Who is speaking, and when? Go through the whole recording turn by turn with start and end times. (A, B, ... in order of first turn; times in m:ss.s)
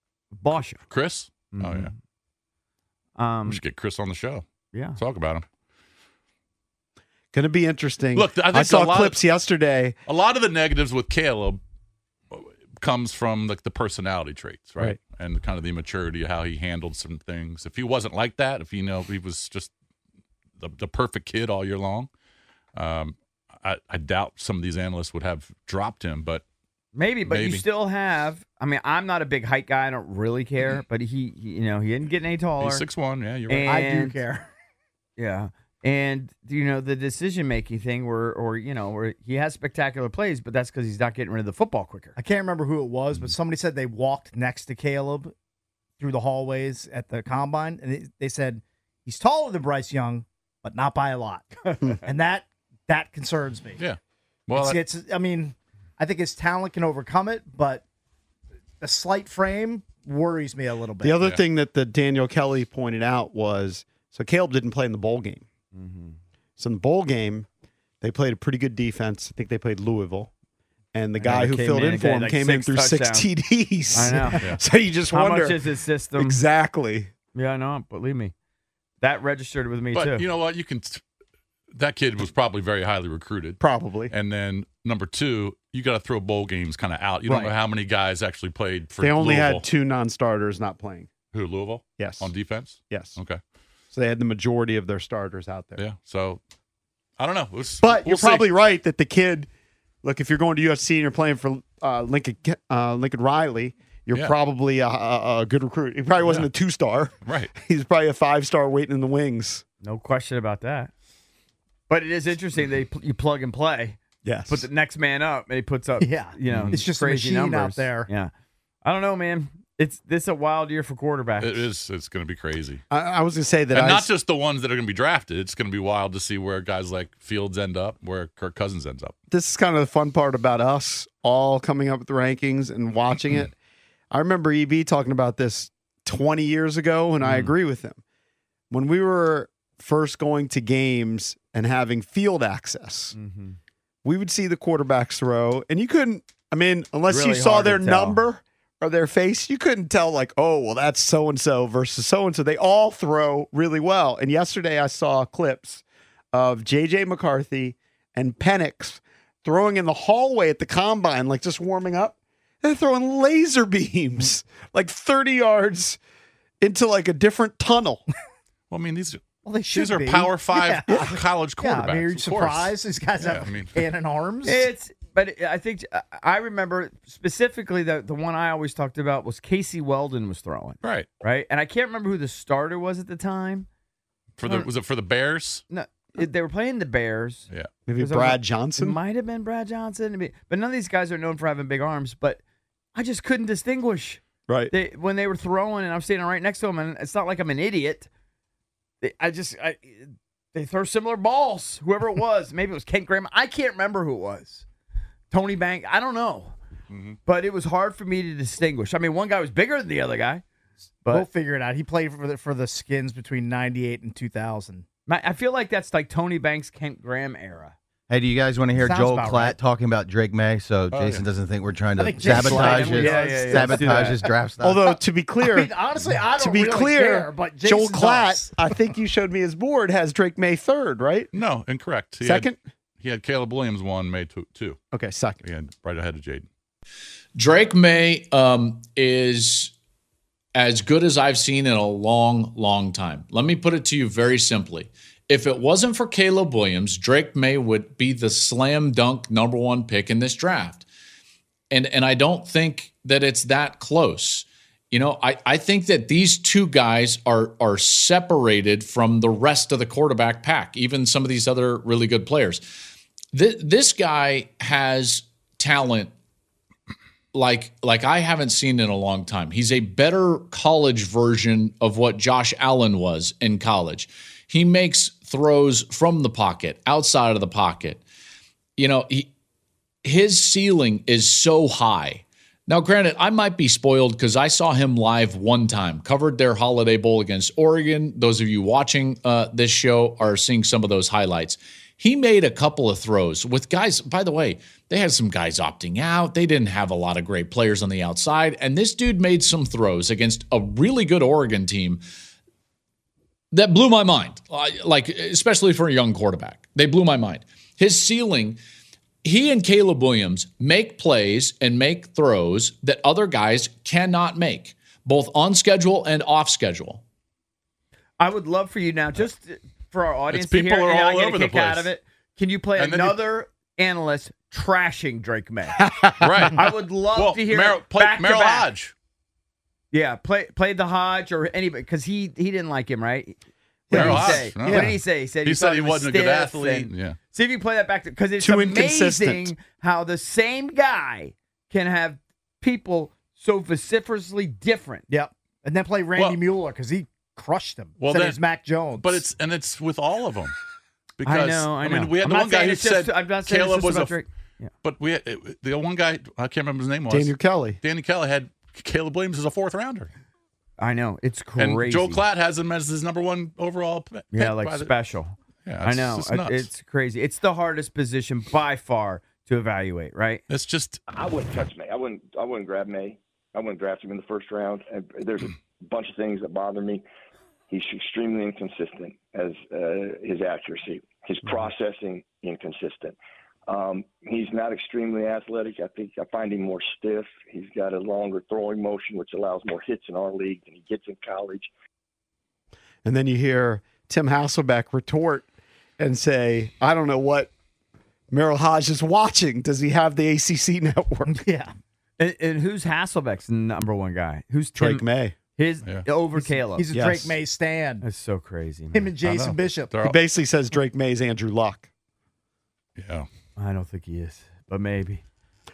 0:00.4-0:00.8 A
0:00.9-0:01.9 B
0:01.5-0:01.9 A
0:03.2-0:03.6 A
0:03.4-0:04.4 B
0:04.7-0:05.0 A
0:05.0-0:05.4 B
0:07.3-0:10.0 C
0:08.1-0:09.2 B
0:10.0-0:11.6 B
0:12.3-0:19.7 B
0:20.6-0:22.1 B
0:22.7-0:26.4 B
0:26.9-0:32.8 A
0:27.2-0:27.6 B
0:32.6-0:33.8 B
0:33.5-0:34.2 A
0:33.6-0:34.5 D
0:35.2-0:42.2 A
0:42.2-0:45.3 D
0:46.0-0:53.8 D
0:53.8-0:54.8 B
0:54.5-0:57.8 D
0:58.8-1:01.2 D
1:01.0-1:05.4 C
1:05.7-1:06.2 A
1:06.6-1:07.5 C
1:08.0-1:10.3 C
1:10.9-1:15.6 C
1:11.2-1:13.3 A
1:13.9-1:14.4 A
1:15.1-1:16.4 A
1:16.2-1:17.1 C
1:17.3-1:18.3 A
1:19.0-1:20.2 A
1:19.9-1:21.0 B
1:21.7-1:23.6 B
1:23.6-1:24.1 C
1:24.1-1:29.6 B
1:29.0-1:31.1 C
1:31.3-1:33.4 B
1:32.0-1:32.3 C
1:32.9-1:33.2 C
1:33.9-1:35.8 C
1:35.8-1:36.4 B
1:37.2-1:38.5 B
1:37.8-1:39.5 C
1:40.0-1:49.6 C
1:47.2-1:47.5 B
1:49.8-1:50.9 A
1:51.9-1:58.3 A
1:54.2-1:54.6 C
1:56.0-1:58.1 D
1:56.5-1:56.8 B
1:58.8-2:01.7 A
2:01.4-2:02.8 B
2:02.9-2:04.1 C
2:03.7-2:09.2 B
2:09.3-2:13.5 C
2:14.1-2:18.0 C
2:17.2-2:17.5 A
2:18.7-2:23.1 C
2:23.1-2:23.6 A
2:24.0-2:46.0 C
2:27.1-2:28.2 A
2:46.6-2:48.0 C
2:48.7-2:53.7 B
2:49.4-2:54.7 D
2:54.4-3:03.7 A
3:00.8-3:01.1 B
3:04.4-3:05.6 B
3:05.7-3:12.4 A
3:07.9-3:09.0 C
3:12.9-3:18.1 A
3:14.5-3:14.7 C
3:19.0-3:24.6 A
3:25.3-3:26.5 A
3:26.9-3:27.2 B
3:27.3-3:30.4 A
3:31.1-3:34.8 D
3:35.1-3:37.7 A
3:38.1-3:44.9 E
3:38.7-3:39.6 D
3:40.9-3:41.2 B
3:42.0-3:44.3 D
3:42.2-3:44.2 A
3:44.6-3:45.7 C
3:45.4-3:48.6 D
3:46.4-3:51.3 C
3:51.3-3:52.5 B
3:52.2-3:52.5 C
3:53.0-3:54.8 B
3:54.9-3:55.4 C
3:55.4-3:56.5 B
3:57.4-3:59.7 F
4:00.5-4:10.8 F
4:11.7-4:22.7 F
4:23.3-4:26.1 F
4:27.3-4:38.0 F
4:38.8-4:39.3 F
4:40.0-5:02.0 F
5:03.5-5:08.6 F
5:09.2-5:17.0 F
5:18.2-5:25.8 A
5:20.3-5:21.9 B
5:22.8-5:23.2 B
5:26.2-5:28.9 B
5:26.4-5:28.7 A
5:29.9-5:33.4 A
5:33.9-5:34.9 C
5:33.9-5:45.0 A
5:33.9-5:37.2 B
5:38.4-5:39.5 C
5:45.1-5:49.2 D
5:48.0-5:48.4 B
5:49.0-5:50.5 B
5:51.2-5:54.2 B
5:51.2-5:54.7 A
5:54.8-6:00.1 B
5:57.1-5:57.8 C
6:00.8-6:02.2 A
6:01.6-6:04.9 B
6:04.3-6:10.4 A
6:05.6-6:06.7 B
6:10.5-6:11.0 B
6:11.1-6:17.0 G
6:17.7-6:31.7 G
6:33.0-6:35.5 C
6:36.0-6:37.5 C
6:38.3-6:41.4 C
6:41.2-6:41.7 D
6:42.2-6:45.0 A
6:44.8-6:45.3 C
6:45.6-6:46.9 A
6:46.5-6:48.0 D
6:46.9-6:47.4 C
6:48.0-6:49.1 A
6:48.9-6:49.9 D
6:49.2-6:50.2 B
6:50.0-6:51.9 C
6:53.0-6:53.3 B
6:53.6-6:55.2 A